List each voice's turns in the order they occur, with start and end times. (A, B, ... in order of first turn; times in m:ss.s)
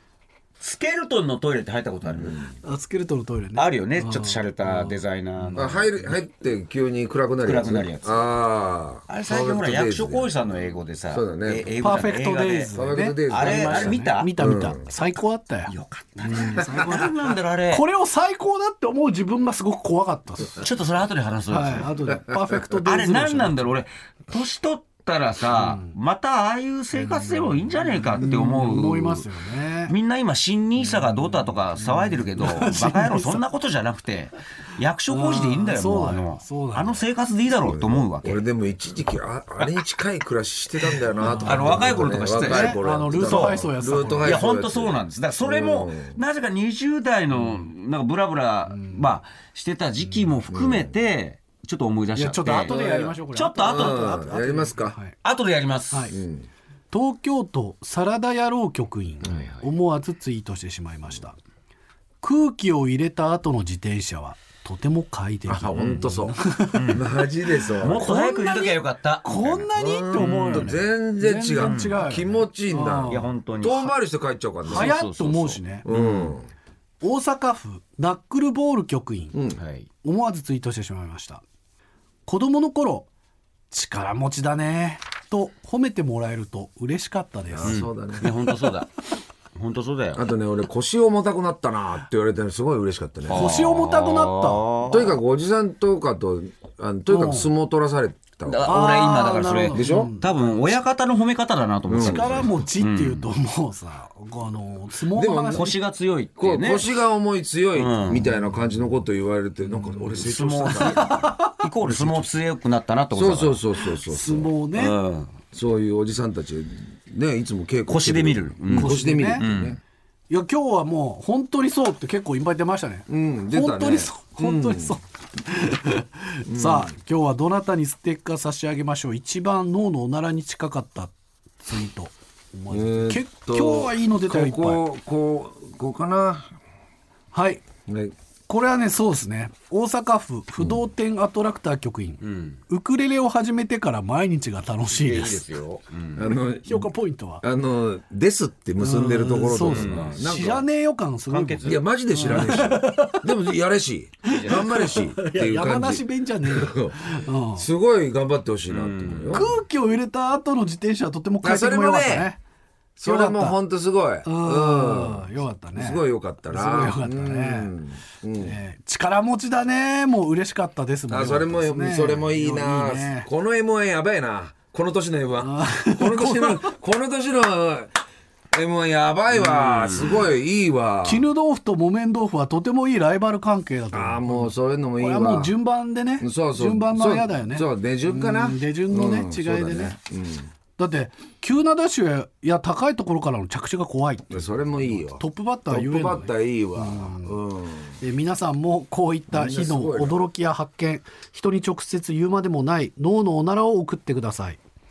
0:00.6-0:02.4 A
0:02.1-0:02.5 B
0:02.6-0:05.6 C
0:03.5-0:05.9 A
0:05.6-0:10.3 B
0:07.4-0:08.3 A
0:09.1-0:12.7 A
0:11.1-0:12.0 B
0:11.8-0:17.1 C
0:12.7-0:14.9 B
0:13.3-0:14.3 A
0:15.7-0:17.8 A
0:17.7-0:20.6 C
0:20.6-0:21.9 A
0:21.5-0:23.7 C
0:22.8-0:29.3 A
0:25.5-0:25.9 C
0:26.9-0:27.5 C
0:28.2-0:29.9 C
0:29.9-0:38.4 A
0:30.9-0:33.4 C
0:35.1-0:37.1 C
0:37.6-0:46.2 B
0:41.0-0:43.6 A
0:41.2-0:44.4 C
0:44.2-0:52.7 A
0:48.7-0:49.1 C
0:50.5-0:50.9 B
0:52.1-0:55.2 C
0:52.5-0:55.0 B
0:53.3-0:54.2 A
0:55.2-0:56.1 A
0:56.1-0:56.5 B
0:56.9-1:01.4 C
0:59.2-0:59.7 A
1:02.2-1:07.3 C
1:05.5-1:06.4 B
1:05.8-1:07.0 A
1:06.9-1:08.0 B
1:07.8-1:10.8 A
1:07.8-1:13.9 C
1:09.7-1:14.9 B
1:11.6-1:12.0 A
1:13.0-1:13.9 A
1:14.6-1:15.9 C
1:14.6-1:16.3 A
1:15.8-1:16.5 B
1:17.0-1:19.4 C
1:19.3-1:19.6 B
1:19.6-1:19.9 A
1:20.0-1:21.4 C
1:22.2-1:23.1 C
1:23.7-1:28.3 C
1:27.5-1:28.2 B
1:27.6-1:28.9 A
1:29.5-1:30.2 A
1:30.1-1:33.5 B
1:33.2-1:35.2 A
1:33.3-1:34.7 C
1:34.8-1:38.8 B
1:37.1-1:37.5 C
1:38.4-1:43.2 A
1:38.6-1:40.7 C
1:39.7-1:40.1 B
1:41.9-1:42.5 B
1:42.0-1:45.8 C
1:45.1-1:45.7 B
1:45.5-1:46.9 A
1:46.4-1:52.3 B
1:47.7-1:48.3 A
1:50.2-1:53.6 A
1:50.7-1:51.6 C
1:53.1-1:54.5 B
1:54.0-1:55.0 C
1:54.7-1:55.3 A
1:55.5-1:59.8 B
1:57.9-1:59.8 A
1:58.7-1:59.4 C
2:00.3-2:14.8 C
2:03.1-2:05.0 B
2:06.4-2:06.9 B
2:12.7-2:16.5 B
2:17.3-2:17.6 C
2:17.9-2:18.1 B
2:18.5-2:25.5 C
2:22.2-2:22.6 A
2:24.9-2:26.3 A
2:26.2-2:26.9 B
2:26.6-2:27.4 C
2:27.4-2:30.6 B
2:28.8-2:33.3 C
2:29.6-2:30.2 A
2:31.3-2:32.6 A
2:31.6-2:39.5 B
2:34.2-2:37.7 C
2:34.3-2:34.6 A
2:38.7-2:39.5 A
2:39.3-2:42.4 C
2:41.4-2:42.3 B
2:43.0-2:48.6 B
2:43.0-2:43.6 C
2:44.2-2:47.7 C
2:48.4-2:53.3 C
2:51.1-2:57.9 B
2:55.4-2:56.7 C
2:58.5-3:01.3 B
2:59.3-3:00.2 A
3:01.0-3:10.0 C
3:03.9-3:05.5 B
3:06.2-3:10.5 B
3:10.8-3:17.4 C
3:14.3-3:17.9 B
3:18.0-3:24.6 C
3:19.3-3:20.2 B